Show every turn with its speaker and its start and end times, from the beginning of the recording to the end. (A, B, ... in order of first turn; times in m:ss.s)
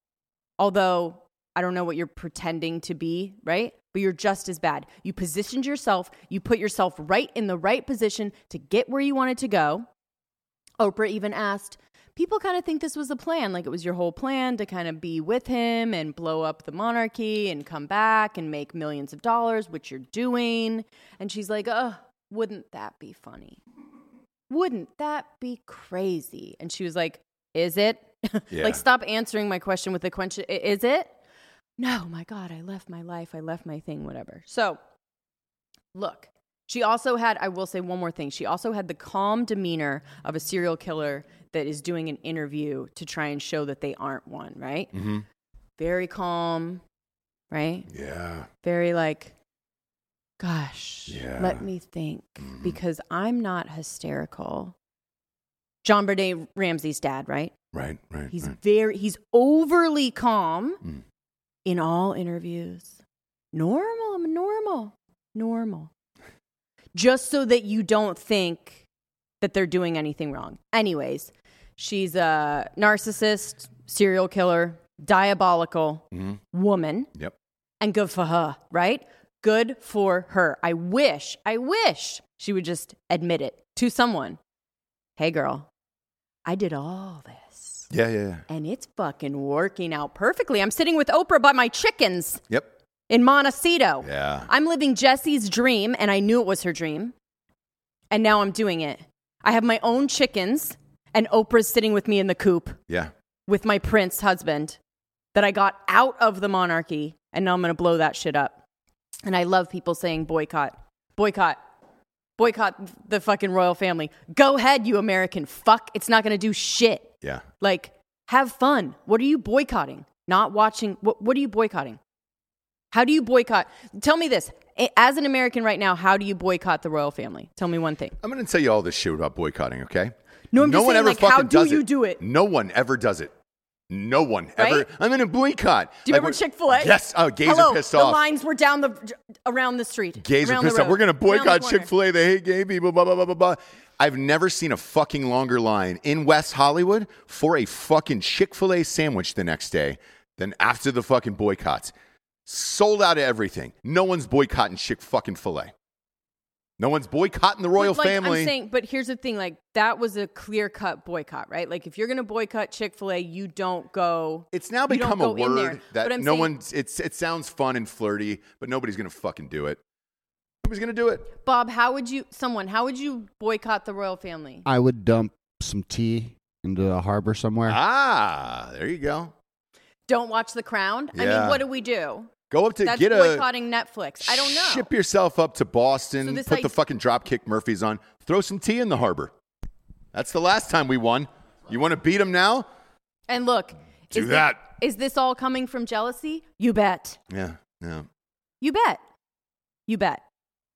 0:00.6-0:09.9 A
0:10.8-0:23.6 A
0:24.5-0:31.2 A
0:28.5-0:28.8 B
0:31.8-0:34.8 A
0:35.9-0:44.9 A
0:44.9-0:45.2 B
0:45.8-0:46.8 A
0:47.5-0:47.9 A
0:47.9-0:48.5 B
0:48.6-0:49.3 A
0:50.4-0:54.7 A
0:51.1-0:51.6 B
0:52.4-0:52.8 B
0:55.8-0:57.5 A
0:57.7-0:58.6 B
0:58.3-1:00.8 A
1:01.6-1:03.0 A
1:03.5-1:05.9 A
1:06.9-1:08.8 A
1:09.4-1:17.1 A
1:16.1-1:16.4 B
1:17.8-1:24.4 A
1:25.2-1:25.7 A
1:26.4-1:27.9 A
1:27.9-1:28.4 B
1:28.5-1:32.4 A
1:33.1-1:37.1 A
1:34.0-1:34.5 B
1:38.1-1:42.8 A
1:43.5-1:44.8 A
1:45.3-1:48.6 A
1:49.2-1:51.6 A
1:52.4-2:02.0 A
2:02.9-2:08.2 A
2:08.2-2:13.3 B
2:10.5-2:12.2 A
2:13.9-2:18.2 B
2:14.6-2:14.9 A
2:16.0-2:21.9 A
2:20.2-2:31.9 B
2:32.4-2:35.7 B
2:36.8-2:38.5 B
2:37.8-2:46.5 A
2:44.5-2:49.8 B
2:50.6-2:51.3 B
2:51.4-2:54.6 A
2:54.6-2:57.8 C
2:57.7-2:59.3 B
3:00.1-3:02.3 A
3:01.1-3:01.6 B
3:02.5-3:03.4 B
3:02.8-3:04.9 A
3:04.2-3:09.3 B
3:06.2-3:06.7 A
3:10.1-3:12.7 B
3:13.3-3:17.2 A
3:14.1-3:14.6 B
3:17.3-3:18.1 B
3:18.6-3:19.0 A
3:19.9-3:20.2 A